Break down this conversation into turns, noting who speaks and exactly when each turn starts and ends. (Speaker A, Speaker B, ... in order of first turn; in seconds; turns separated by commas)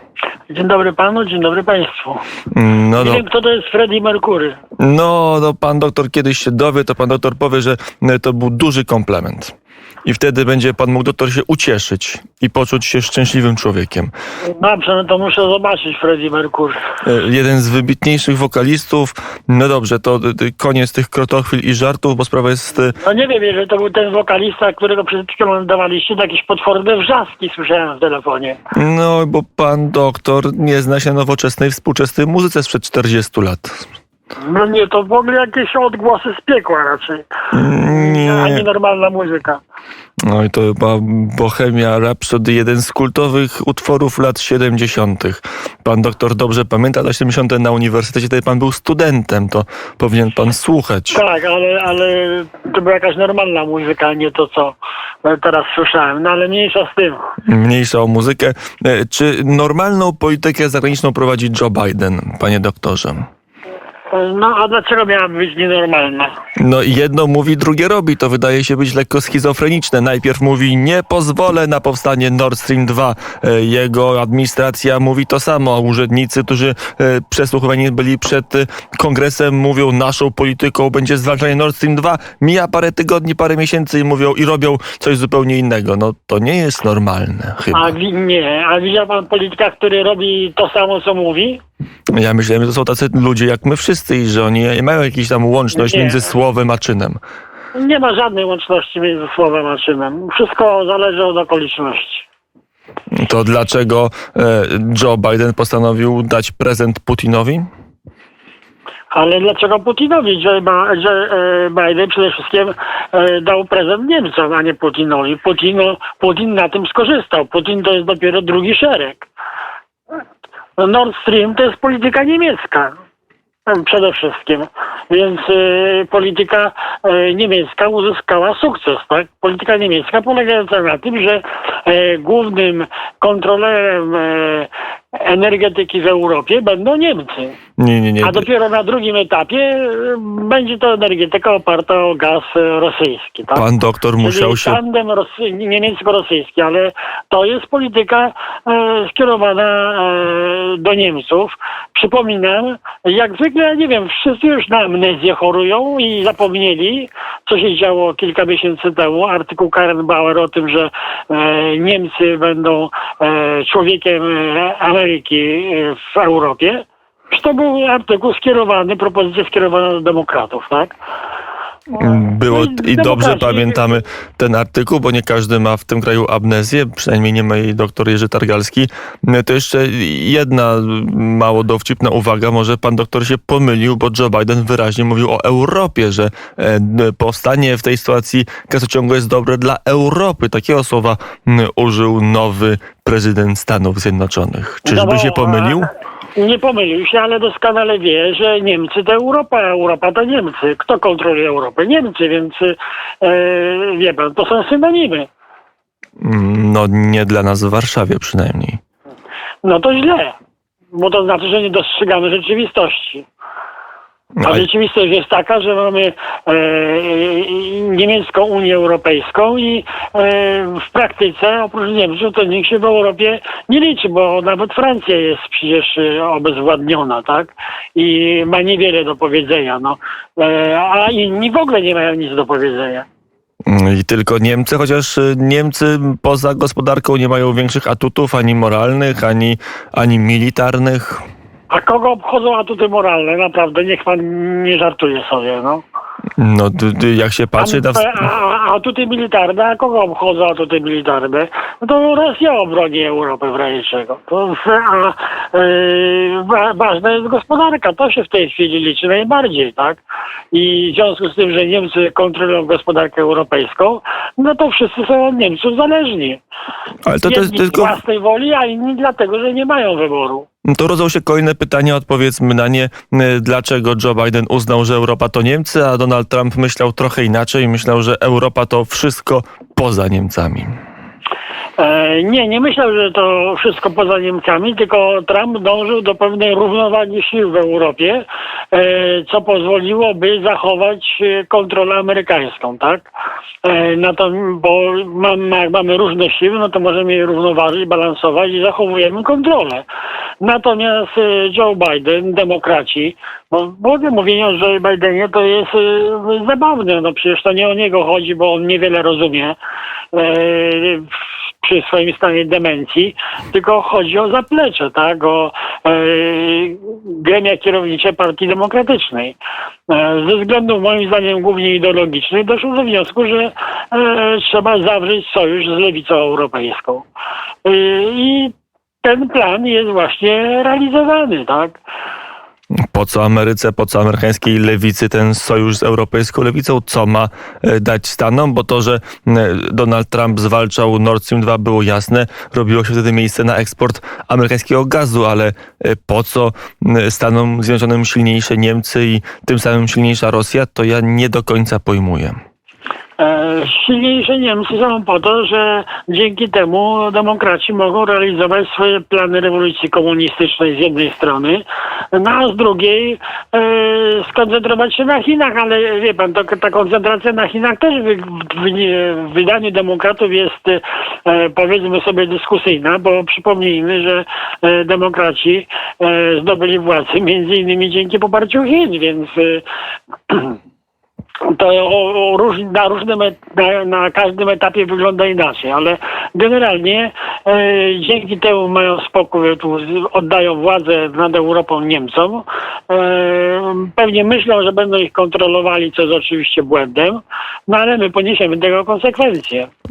Speaker A: 0.5-2.2, Speaker B: 2.5-3.2, Speaker A: 3.0-4.6, Speaker B: 4.8-14.1, Speaker A: 14.4-16.8, Speaker B: 17.0-23.0, Speaker A: 23.0-28.6, Speaker B: 28.7-33.9, Speaker A: 34.4-37.3, Speaker B: 37.5-38.7, Speaker A: 37.9-39.6, Speaker B: 40.2-51.2, Speaker A: 51.1-57.2, Speaker B: 57.4-63.3, Speaker A: 64.1-66.3, Speaker B: 66.6-88.0, Speaker A: 87.7-91.6, Speaker B: 92.1-97.2, Speaker A: 95.7-96.3, Speaker A: 97.7-102.3, Speaker B: 103.1-107.7, Speaker A: 109.1-119.3, Speaker A: 120.8-123.0, Speaker A: 123.7-137.6, Speaker B: 137.8-138.5, Speaker A: 138.2-143.7, Speaker B: 143.5-144.8, Speaker A: 144.2-171.0, Speaker A: 171.9-174.0, Speaker B: 172.0-195.9, Speaker A: 194.8-195.8, Speaker A: 196.4-205.3, Speaker B: 206.2-208.8, Speaker A: 209.6-210.4, Speaker A: 210.9-213.3, Speaker B: 214.4-214.7, Speaker A: 214.4-233.1, Speaker B: 233.7-241.2, Speaker A: 241.7-245.8, Speaker B: 246.4-248.3, Speaker A: 247.6-260.0, Speaker A: 260.5-266.4, Speaker B: 267.1-268.0, Speaker A: 267.2-270.5, Speaker B: 270.6-280.8, Speaker A: 281.8-293.1, Speaker A: 293.6-299.9, Speaker A: 300.4-309.6, Speaker A: 310.1-319.4, Speaker A: 319.9-327.1, Speaker A: 327.6-331.8, Speaker B: 332.9-352.4, Speaker A: 353.2-379.6, Speaker A: 380.3-380.6, Speaker A: 381.4-399.7